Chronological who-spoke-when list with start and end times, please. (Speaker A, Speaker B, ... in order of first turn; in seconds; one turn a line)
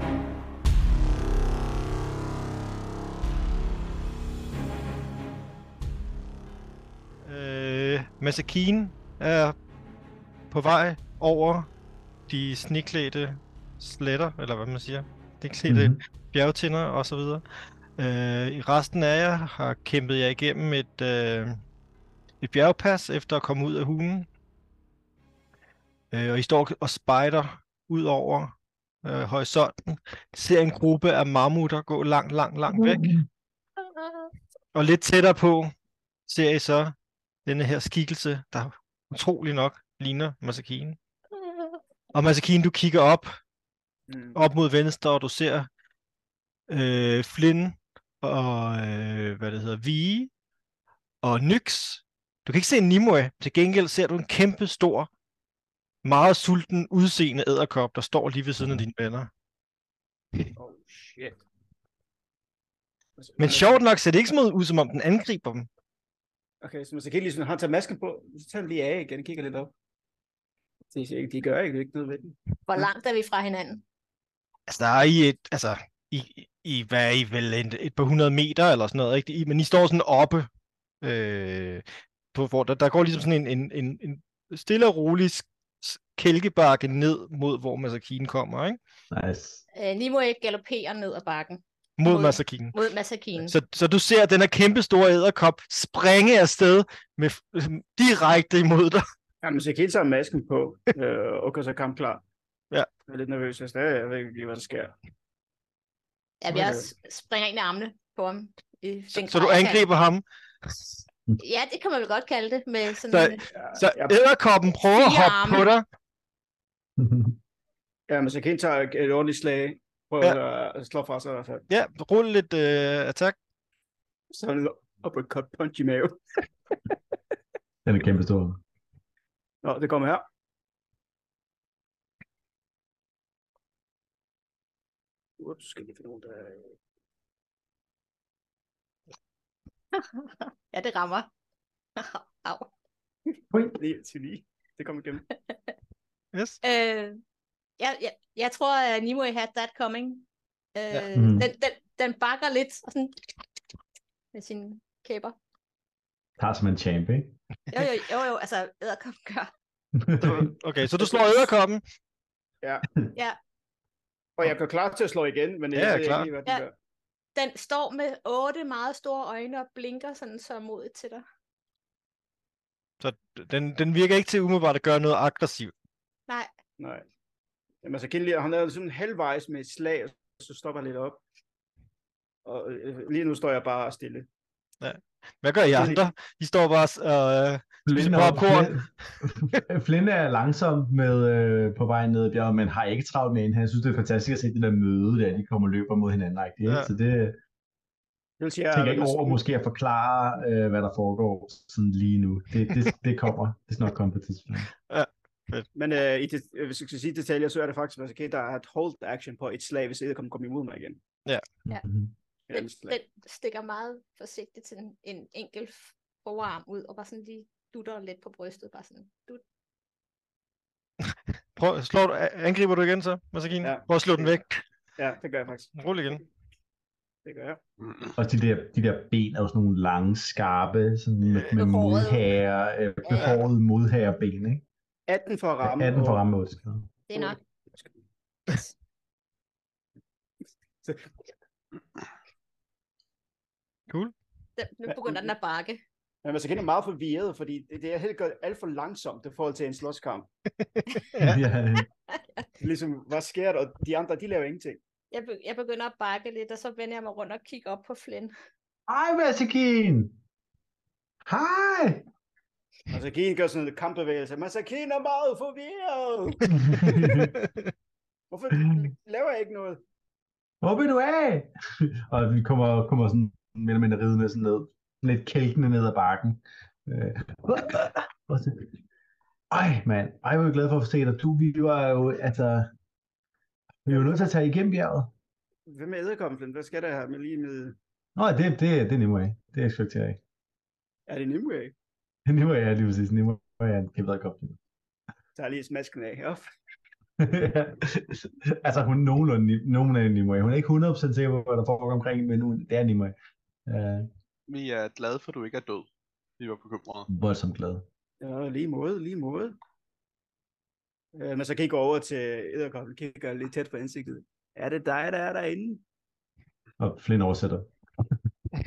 Speaker A: 7.2-9.6
Speaker A: 10.5-11.7
Speaker A: 12.3-17.4
Speaker B: 15.7-16.0
Speaker A: 18.0-21.6
Speaker A: 22.4-24.3
Speaker A: 26.1-33.0
Speaker B: 32.7-33.3
Speaker C: 33.8-34.3
Speaker A: 34.7-35.7
Speaker A: 36.3-36.9
Speaker A: 37.5-41.0
Speaker C: 41.3-41.8
Speaker A: 42.1-43.3
Speaker D: 44.1-44.4
Speaker A: 44.4-45.7
Speaker A: 46.7-50.3
Speaker A: 51.2-55.1
Speaker A: 56.0-59.3
Speaker D: 60.6-61.4
Speaker D: 63.2-63.8
Speaker A: 63.4-65.7
Speaker D: 66.6-69.7
Speaker D: 70.9-72.8
Speaker C: 72.7-73.8
Speaker A: 74.7-80.5
Speaker A: 81.0-88.8
Speaker B: 89.1-89.6
Speaker C: 89.7-93.6
Speaker A: 92.0-92.7
Speaker A: 93.4-99.0
Speaker D: 99.4-102.2
Speaker D: 103.1-104.9
Speaker C: 106.4-109.8
Speaker D: 106.5-106.9
Speaker A: 109.1-110.8
Speaker C: 111.4-113.4
Speaker A: 113.1-115.8
Speaker D: 113.5-114.2
Speaker C: 115.0-115.7
Speaker B: 117.0-117.4
Speaker D: 118.1-121.7
Speaker A: 121.7-123.4
Speaker D: 124.3-126.2
Speaker B: 127.8-128.6
Speaker D: 129.6-130.3
Speaker D: 135.4-136.7
Speaker C: 139.9-141.3
Speaker C: 142.0-142.7
Speaker B: 143.5-143.8
Speaker D: 143.8-145.2
Speaker A: 146.3-146.6
Speaker C: 146.6-147.2
Speaker C: 147.8-153.2
Speaker B: 151.1-151.5
Speaker C: 154.3-155.4
Speaker B: 156.4-157.4
Speaker C: 157.7-159.5
Speaker B: 159.9-160.5
Speaker A: 160.2-161.8
Speaker D: 164.4-166.7
Speaker A: 165.7-166.3
Speaker C: 167.3-171.2
Speaker A: 173.0-175.7
Speaker D: 176.8-177.1
Speaker D: 177.8-181.2
Speaker D: 182.4-184.3
Speaker A: 184.8-188.8
Speaker D: 185.7-186.0
Speaker B: 187.9-197.4
Speaker D: 198.4-199.4
Speaker B: 198.7-204.7
Speaker A: 204.9-205.7
Speaker D: 205.7-211.0
Speaker B: 211.7-212.1
Speaker D: 212.5-213.0
Speaker C: 212.5-219.4
Speaker A: 221.6-224.6
Speaker D: 223.6-224.4
Speaker D: 225.0-225.8
Speaker A: 225.8-226.2
Speaker D: 227.2-227.6
Speaker E: 227.8-228.1
Speaker B: 228.2-234.6
Speaker A: 231.2-231.7
Speaker C: 231.6-232.3
Speaker C: 233.0-233.4
Speaker D: 235.1-236.2
Speaker B: 235.6-236.9
Speaker C: 237.1-237.4
Speaker D: 237.1-237.9
Speaker D: 240.8-241.1
Speaker A: 243.9-244.1
Speaker C: 244.6-245.8
Speaker D: 244.9-245.3
Speaker D: 246.2-250.3
Speaker A: 250.8-251.4
Speaker B: 251.2-251.9
Speaker C: 252.1-252.5
Speaker D: 252.6-254.8
Speaker C: 255.1-258.3
Speaker B: 258.9-260.2
Speaker B: 261.3-262.1
Speaker D: 262.9-267.2
Speaker B: 266.5-267.4
Speaker D: 268.3-269.8
Speaker B: 270.6-278.7
Speaker B: 279.5-282.7
Speaker B: 283.9-285.1
Speaker D: 283.9-284.3
Speaker D: 285.7-287.8
Speaker B: 288.2-290.2
Speaker D: 291.1-291.7
Speaker B: 292.3-294.6
Speaker D: 295.4-296.4
Speaker B: 297.2-303.1
Speaker B: 303.7-304.1
Speaker E: 304.5-307.1
Speaker B: 307.1-307.9
Speaker D: 308.2-309.6
Speaker D: 311.1-315.8
Speaker B: 316.8-317.7